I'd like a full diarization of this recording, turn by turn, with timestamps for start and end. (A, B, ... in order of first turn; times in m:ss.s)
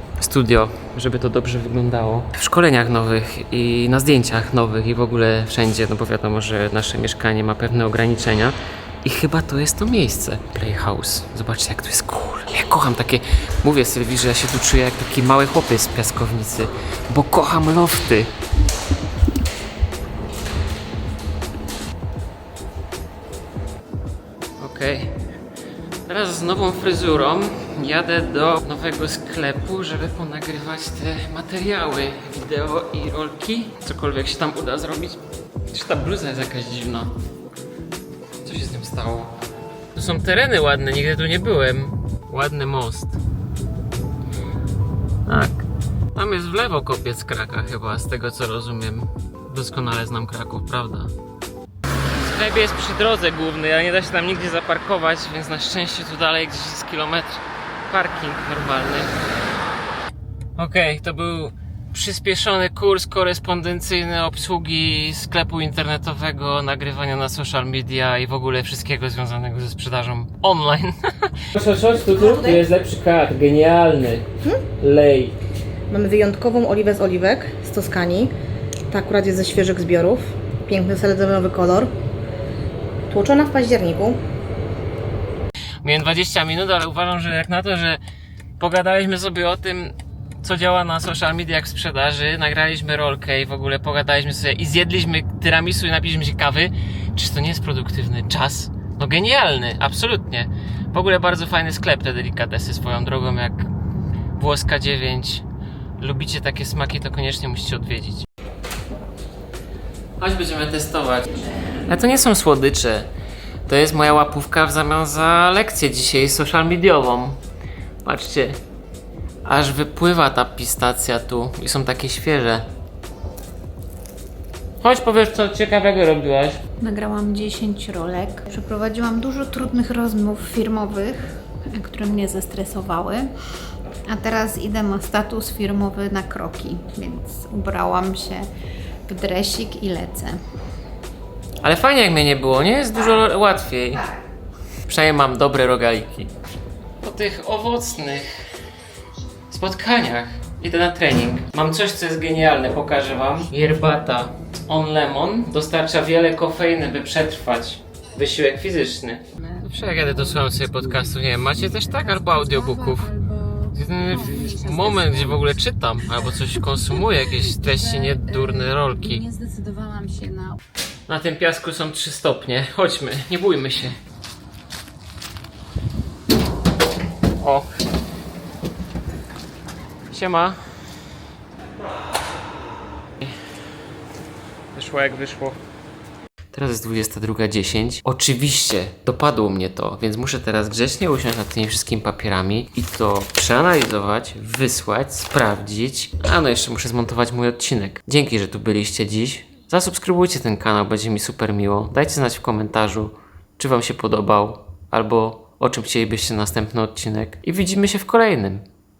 0:00.2-0:18.3 A
0:24.6-0:25.2 A
0:26.1-0:37.2 A
0:38.4-0:39.3 A
0:39.9-0:43.2 A
0:45.3-0:51.1 A
0:52.1-0:59.1 A
1:00.6-1:14.3 A
1:14.8-1:15.4 A
1:15.9-1:18.3 B
1:18.9-1:21.9 B
1:23.1-1:24.2 B
1:25.8-1:28.0 A
1:28.6-1:43.7 A
1:44.4-1:45.4 A
1:46.0-1:48.3 A
1:50.2-1:53.1 A
1:53.7-1:57.4 A
1:58.0-1:58.6 A
1:59.4-2:02.7 A
2:04.8-2:06.6 A
2:06.8-2:13.3 C
2:14.1-2:18.5 C
2:19.1-2:20.4 C
2:21.6-2:24.1 A
2:24.9-2:26.3 A
2:27.0-2:28.3 A
2:29.5-2:43.2 A
2:42.2-2:43.6 C
2:43.7-2:49.2 A
2:44.3-2:45.4 C
2:48.0-2:50.6 C
2:51.1-2:54.0 A
2:57.4-2:57.7 A
3:00.1-3:00.6 A
3:04.7-3:05.6 A
3:06.5-3:28.6 A